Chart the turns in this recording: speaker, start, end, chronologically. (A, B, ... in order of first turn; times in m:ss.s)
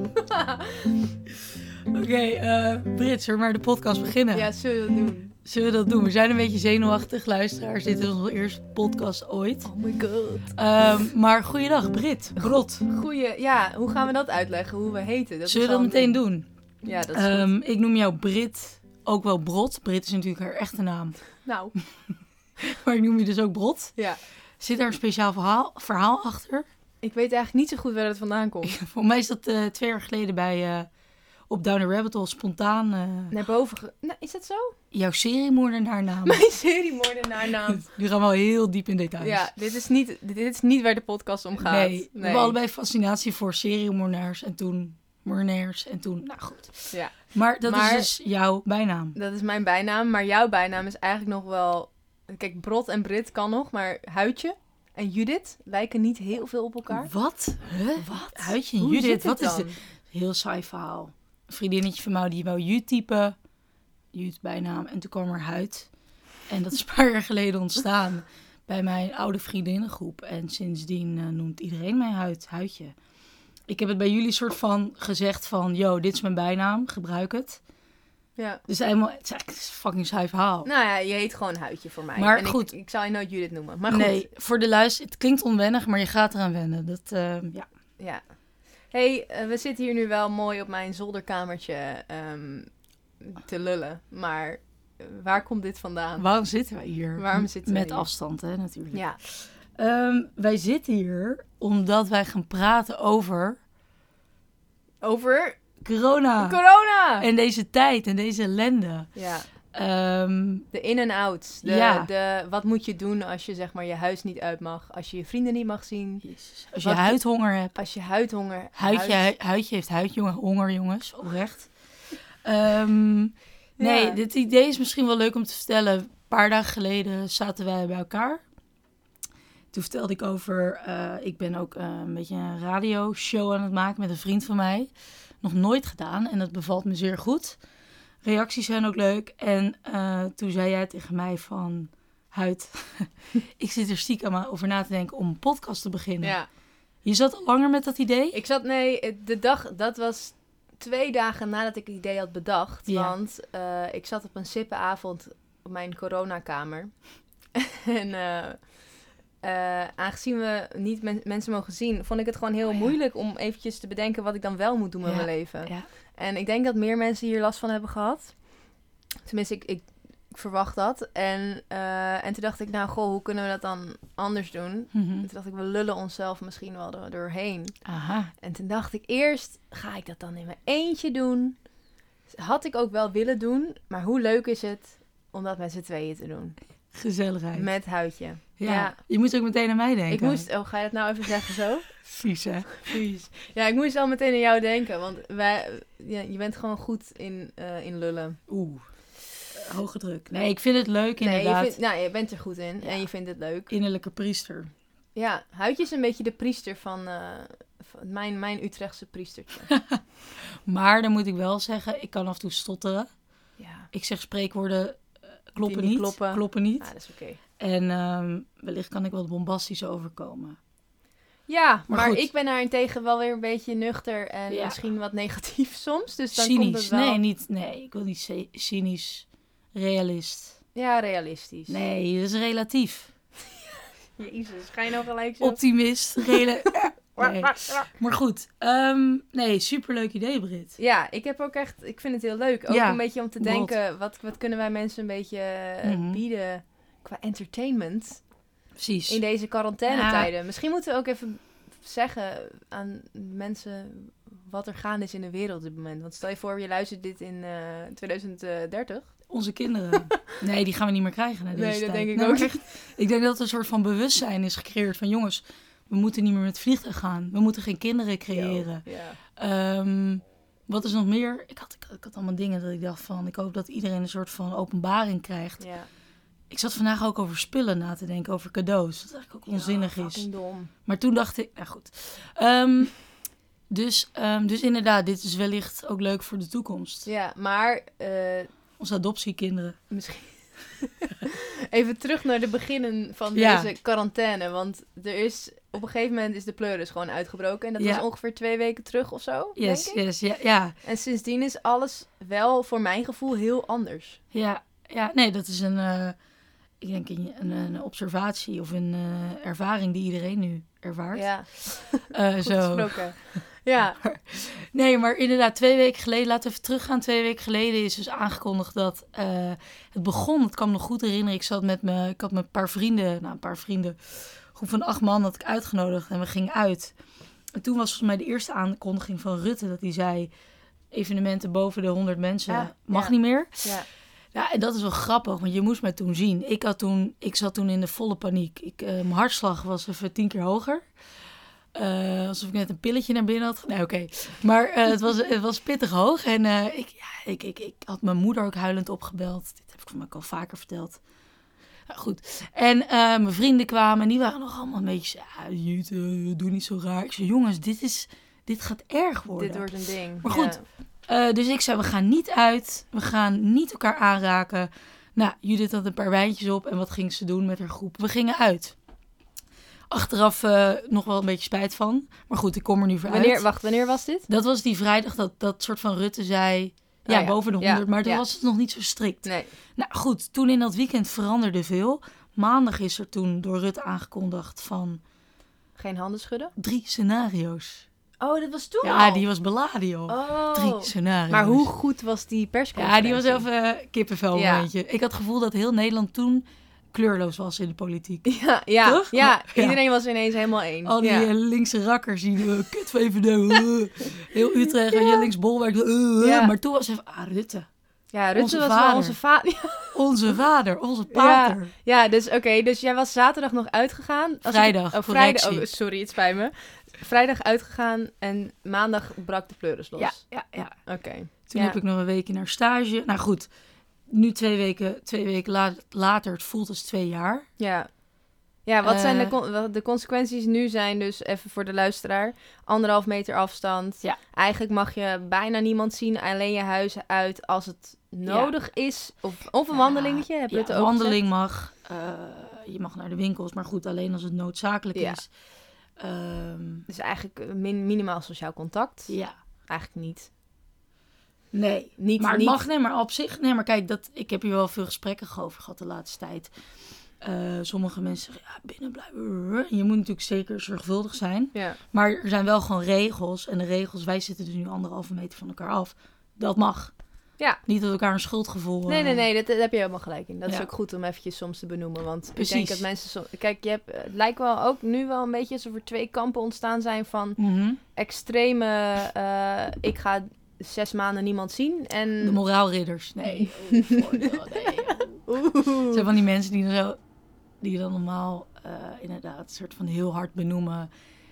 0:00.2-0:01.0 A
0:01.9-0:04.5 B
0:04.3-0:05.4 A
0:05.4-0:09.7 B
0:09.7-0:10.4 A
0:10.6-0:12.8 B
0:12.4-0:16.2 A
0:15.5-0:16.5 B
0:16.8-0:17.5 A
0:17.1-0:21.2 B
0:21.4-0:21.7 A
0:22.6-0:24.0 B
0:24.6-0:26.7 B
0:27.0-0:28.8 A
0:28.6-0:30.9 B
0:31.5-0:33.3 B
0:33.3-0:34.8 A
0:34.9-0:36.4 B
0:36.3-0:37.9 A
0:37.7-0:39.5 B
0:39.2-0:42.6 A
0:41.6-0:49.2 B
0:46.9-0:48.1 A
0:49.2-0:57.1 A
0:56.9-1:03.4 B
0:58.0-0:59.8 A
1:04.1-1:05.9 B
1:06.5-1:13.0 B
1:13.7-1:17.6 B
1:18.4-1:18.6 A
1:18.7-1:20.7 B
1:20.6-1:24.3 A
1:22.2-1:22.7 B
1:23.9-1:27.7 B
1:28.0-1:28.2 A
1:28.9-1:36.2 A
1:36.2-1:43.6 B
1:37.2-1:38.1 A
1:38.9-1:39.2 A
1:45.0-1:45.6 A
1:45.8-1:46.6 B
1:46.4-1:47.3 A
1:47.2-1:49.2 B
1:49.2-1:49.5 A
1:49.7-1:50.7 B
1:50.7-1:56.2 A
1:51.6-1:52.1 B
1:56.2-1:57.8 B
1:56.8-1:57.2 A
1:57.7-1:59.3 A
1:58.7-2:01.7 B
2:02.4-2:08.4 B
2:03.8-2:04.2 A
2:09.7-2:14.9 B
2:15.4-2:17.6 B
2:18.2-2:26.4 B
2:26.2-2:26.5 A
2:27.0-2:28.4 B
2:28.3-2:37.0 A
2:32.9-2:33.2 B
2:37.6-2:38.8 A
2:39.4-2:48.4 A
2:45.0-2:45.9 B
2:49.2-2:57.8 A
2:54.9-2:55.3 B
2:57.8-2:58.3 B
2:58.4-3:01.6 A
3:02.3-3:06.6 A
3:06.9-3:07.7 B
3:07.5-3:09.0 A
3:08.6-3:10.5 B
3:10.1-3:11.9 A
3:12.0-3:13.0 B
3:12.8-3:18.4 A
3:18.5-3:21.8 B
3:21.2-3:23.7 A
3:23.7-3:24.7 B
3:25.2-3:29.7 A
3:29.7-3:30.0 B
3:30.7-3:33.1 B
3:33.6-3:33.9 A
3:33.9-3:36.9 B
3:35.6-3:37.4 A
3:37.6-3:40.6 B
3:41.5-3:47.2 A
3:41.9-3:42.3 B
3:44.5-3:44.8 B
3:46.3-3:50.6 B
3:50.8-3:51.8 A
3:51.7-3:53.1 B
3:54.2-3:55.6 A
3:55.4-4:00.8 B
3:57.2-3:57.9 A
4:00.8-4:08.2 A
4:02.7-4:03.8 B
4:05.8-4:06.2 B
4:08.8-4:10.3 B
4:09.1-4:19.2 A
4:19.3-4:35.6 B
4:21.5-4:22.9 A
4:28.3-4:29.2 A
4:35.6-4:35.9 A
4:36.5-4:40.3 B
4:39.5-4:40.7 A
4:40.8-4:43.1 B
4:43.7-4:47.1 B
4:47.1-4:48.5 A
4:48.8-4:49.8 B
4:49.9-5:00.0 A
4:53.3-4:53.7 B
4:57.8-4:58.0 B
4:59.6-5:00.8 B
5:00.8-5:04.2 A
5:04.3-5:06.2 B
5:06.8-5:13.4 B
5:11.1-5:14.0 A
5:14.0-5:27.0 B
5:27.5-5:30.3 B
5:30.9-5:33.8 B
5:32.5-5:33.9 A
5:34.3-5:40.9 B
5:41.8-5:51.0 B
5:51.9-5:59.7 B
5:59.3-6:00.6 A
6:00.2-6:08.8 B
6:09.9-6:13.4 B
6:13.1-6:14.3 A
6:14.3-6:25.0 B
6:17.1-6:18.2 A
6:19.2-6:19.5 A
6:25.8-6:26.5 A
6:26.6-6:27.9 B
6:28.2-6:29.3 A
6:28.8-6:31.7 B
6:30.1-6:33.4 A
6:32.8-6:38.3 B
6:34.3-6:34.7 A
6:38.3-6:41.3 A
6:38.8-6:39.8 B
6:40.8-6:47.7 B
6:46.2-6:46.5 A
6:48.1-6:50.0 A
6:48.3-6:49.2 B
6:49.9-6:51.7 B
6:51.1-7:00.3 A
6:54.5-6:55.7 B
7:00.0-7:03.5 B
7:00.8-7:01.8 A
7:04.1-7:07.5 B
7:07.6-7:07.9 A
7:08.6-7:21.2 A
7:08.8-7:09.4 B
7:18.2-7:18.5 B
7:19.7-7:25.3 B
7:24.9-7:25.2 A
7:26.0-7:26.9 B
7:26.9-7:29.2 A
7:29.1-7:29.4 B
7:29.7-7:30.3 A
7:31.5-7:36.5 B
7:32.0-7:32.6 A
7:37.2-7:46.9 B
7:41.5-7:41.8 A
7:47.6-7:49.3 B
7:48.9-7:57.4 A
7:52.4-7:52.8 B
7:57.4-7:57.8 B
7:58.0-8:02.4 A
8:02.2-8:05.3 B
8:03.2-8:04.4 A
8:04.9-8:06.0 A
8:05.9-8:07.0 B
8:07.6-8:10.9 B